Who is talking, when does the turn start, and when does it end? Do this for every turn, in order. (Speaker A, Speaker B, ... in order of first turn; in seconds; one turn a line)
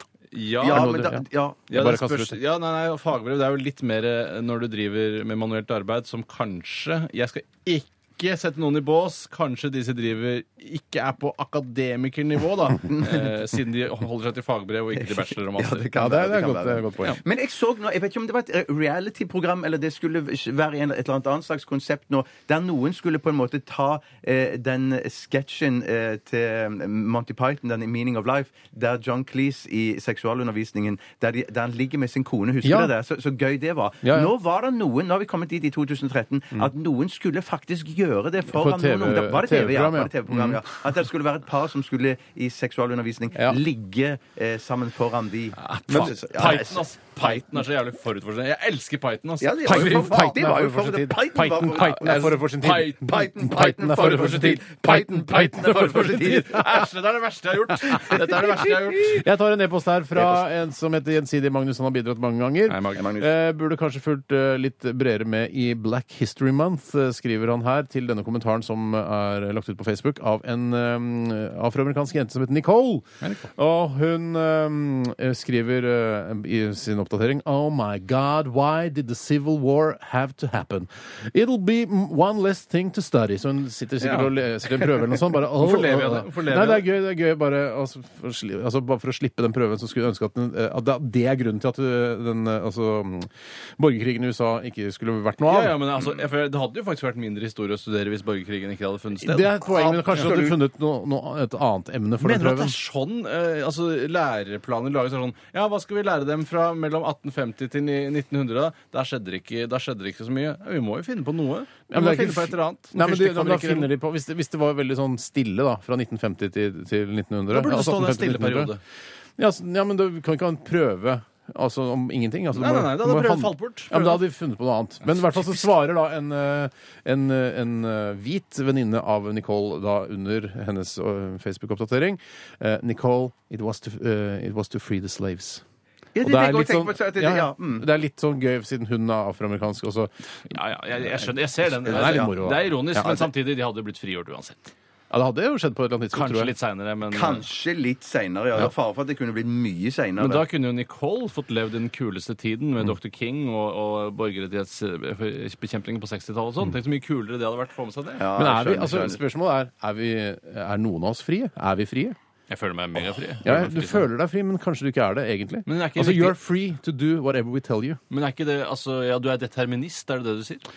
Speaker A: 0.3-1.1
Speaker B: 0.6-1.7
Speaker C: 0.6-2.4
Speaker A: 1.7-15.9
Speaker B: 12.9-13.3
Speaker B: 15.0-47.3
Speaker C: 15.9-17.2
Speaker C: 32.6-32.9
Speaker C: 34.0-34.3
Speaker C: 38.5-40.6
Speaker C: 43.3-43.6
Speaker A: 45.6-50.3
Speaker C: 45.9-46.2
Speaker B: 49.4-56.8
Speaker C: 49.6-56.8
Speaker A: 51.8-53.3
Speaker A: 54.0-54.6
Speaker A: 55.7-59.2
Speaker C: 58.0-95.8
Speaker A: 62.7-63.2
Speaker B: 63.0-63.3
Speaker A: 73.2-73.5
Speaker A: 84.0-86.9
Speaker A: 95.4-99.6
Speaker C: 99.2-102.8
Speaker B: 99.7-100.6
Speaker A: 102.2-113.9
Speaker C: 111.9-118.7
Speaker A: 117.5-118.8
Speaker C: 119.4-135.6
Speaker A: 122.5-124.2
Speaker A: 125.0-125.7
Speaker B: 136.1-137.9
Speaker C: 136.2-140.1
Speaker A: 140.4-144.7
Speaker C: 141.1-143.3
Speaker B: 141.9-142.3
Speaker C: 145.1-146.5
Speaker A: 146.1-147.4
Speaker B: 147.1-150.4
Speaker A: 150.2-158.3
Speaker B: 158.2-159.2
Speaker C: 158.4-162.2
Speaker A: 162.5-164.1
Speaker C: 163.4-168.0
Speaker A: 165.7-166.4
Speaker A: 168.1-170.6